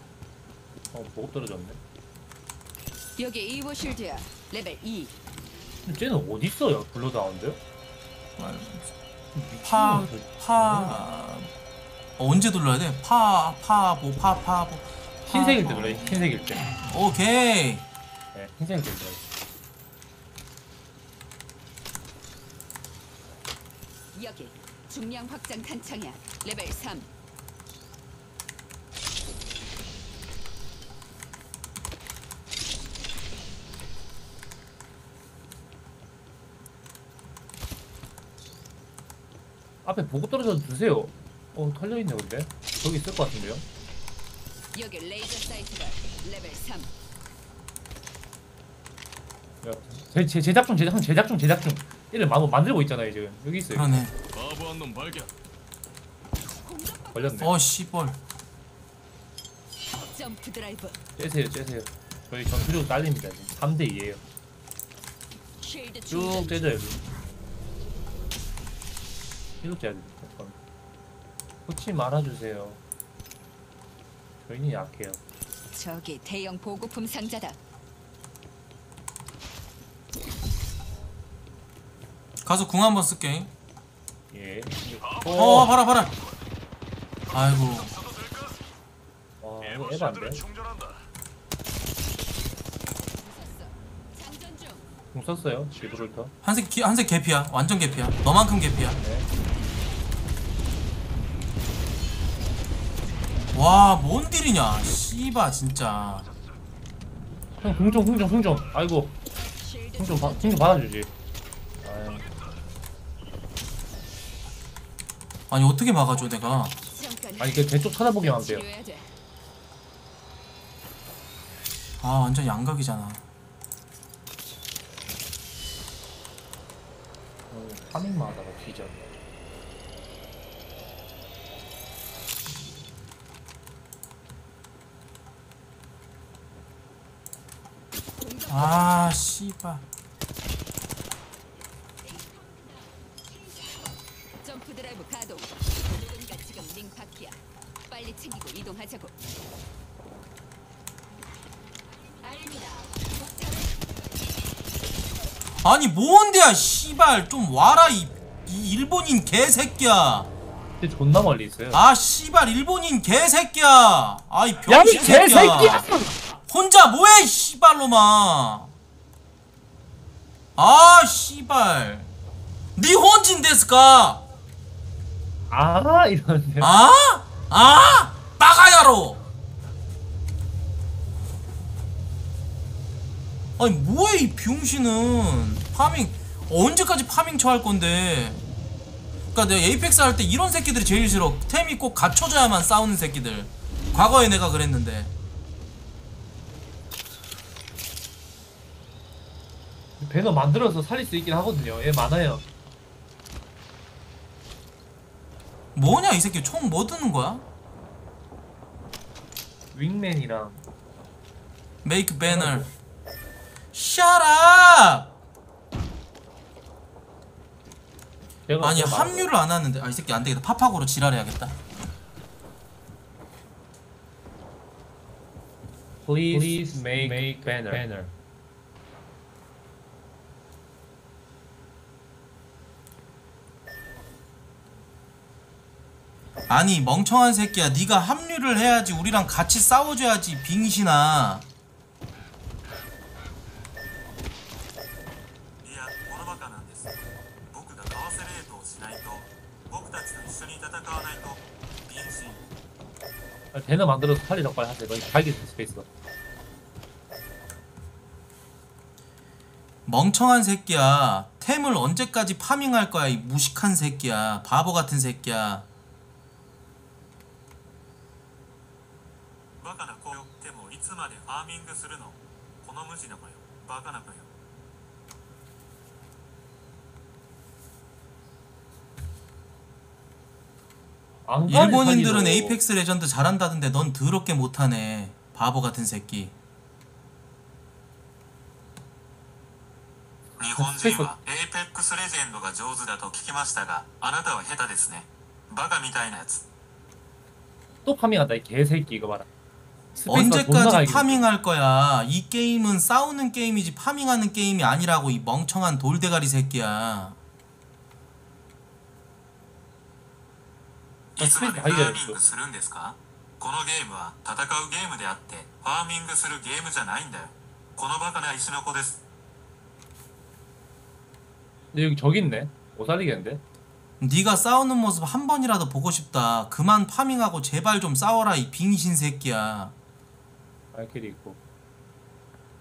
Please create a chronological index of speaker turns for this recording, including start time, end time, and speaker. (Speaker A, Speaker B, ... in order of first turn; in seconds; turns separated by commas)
Speaker A: 0.9-1.8, Speaker B: 3.2-5.1, Speaker A: 5.9-7.6, Speaker C: 8.4-8.9, Speaker A: 9.3-11.1, Speaker C: 9.7-11.5, Speaker C: 12.2-16.1, Speaker A: 15.3-16.7, Speaker C: 16.9-17.9, Speaker A: 18.3-19.2, Speaker B: 24.1-27.1, Speaker A: 39.8-43.6, Speaker B: 44.7-46.9, Speaker A: 49.6-54.1, Speaker C: 53.7-54.1, Speaker D: 54.3-55.3, Speaker B: 56.6-57.4, Speaker A: 57.1-57.6, Speaker C: 57.4-58.2, Speaker B: 60.1-61.0, Speaker A: 61.2-64.2, Speaker B: 65.6-66.6, Speaker A: 66.1-67.0, Speaker A: 69.6-70.6, Speaker A: 71.7-72.8, Speaker A: 74.5-75.2, Speaker B: 75.7-77.6, Speaker C: 82.4-83.5, Speaker A: 84.3-85.8, Speaker D: 85.0-86.6, Speaker C: 85.3-86.1, Speaker D: 87.3-88.6, Speaker C: 87.3-88.0, Speaker A: 89.4-90.4, Speaker D: 89.6-91.1, Speaker B: 93.2-94.9, Speaker A: 95.1-96.3, Speaker D: 95.8-96.1, Speaker C: 96.4-99.0, Speaker A: 99.0-99.3, Speaker C: 103.5-106.3, Speaker D: 106.0-106.6, Speaker A: 107.6-109.1, Speaker D: 107.7-108.6, Speaker B: 109.6-110.9, Speaker A: 110.0-111.1, Speaker A: 111.8-112.2, Speaker D: 112.1-112.7, Speaker C: 115.5-116.8, Speaker B: 116.8-119.1, Speaker A: 117.4-118.6, Speaker C: 122.0-123.2, Speaker A: 127.5-129.1, Speaker B: 138.2-139.2, Speaker C: 138.5-139.8, Speaker B: 142.0-143.8, Speaker B: 144.4-149.2, Speaker B: 152.2-153.9, Speaker C: 155.6-160.3, Speaker A: 160.8-161.8, Speaker C: 161.7-165.9, Speaker A: 164.7-166.1, Speaker C: 166.5-168.7, Speaker C: 170.6-172.1, Speaker C: 172.8-174.2, Speaker A: 175.5-176.8, Speaker C: 176.6-179.2, Speaker C: 183.6-188.4, Speaker C: 189.3-195.1, Speaker A: 200.0-202.4, Speaker C: 205.8-207.4, Speaker A: 209.7-210.6, Speaker C: 211.8-212.7, Speaker A: 212.3-212.7, Speaker C: 213.7-215.1, Speaker A: 218.5-219.3, Speaker C: 218.6-221.6, Speaker A: 226.1-228.1, Speaker C: 226.3-227.9, Speaker C: 236.5-241.5, Speaker E: 245.6-252.4, Speaker A: 253.5-255.9, Speaker C: 259.9-265.7, Speaker E: 269.6-274.3, Speaker A: 281.3-282.6, Speaker C: 281.5-286.3, Speaker E: 290.4-296.4, Speaker A: 290.6-291.1, Speaker A: 297.9-299.3, Speaker A: 300.0-301.3, Speaker C: 300.1-307.2, Speaker E: 311.2-319.0, Speaker A: 311.2-312.2, Speaker A: 321.7-323.4, Speaker C: 324.0-329.7, Speaker A: 330.7-331.4